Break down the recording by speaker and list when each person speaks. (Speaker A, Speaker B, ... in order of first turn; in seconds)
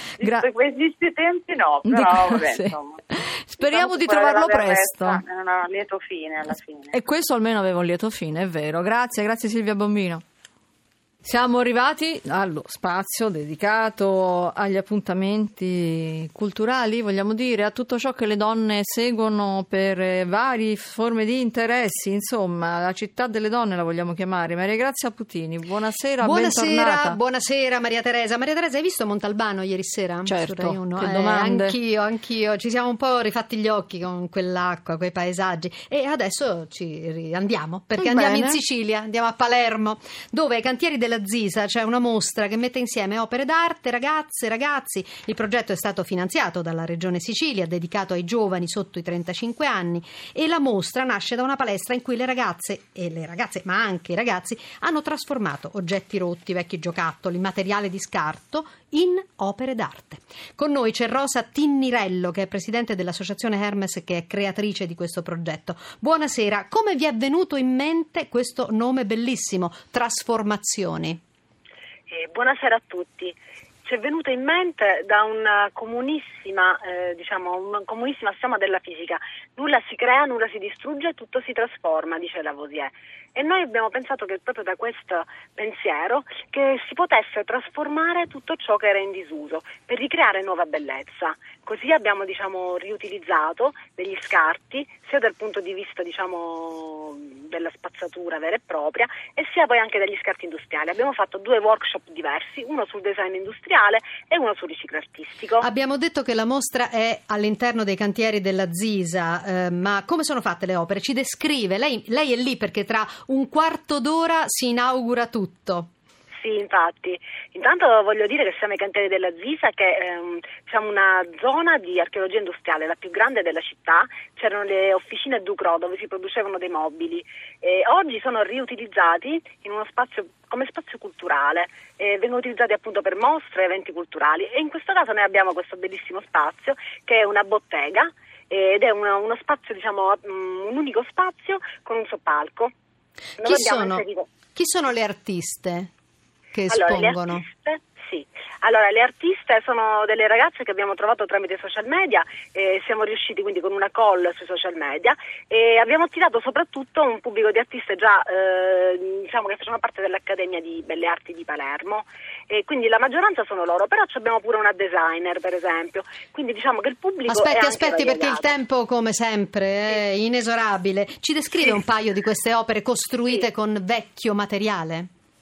Speaker A: 0.2-0.5, 1.8-5.2, 6.9-10.2, 11.2-27.2, 30.2-31.7, 38.0-38.6
Speaker B: 0.2-3.0, 3.6-7.0
Speaker C: 26.2-71.2, 105.6-115.9, 143.4-145.9, 146.5-147.4, 167.3-175.1
Speaker D: 72.1-105.7, 116.3-142.7, 143.4-144.3, 146.7-168.5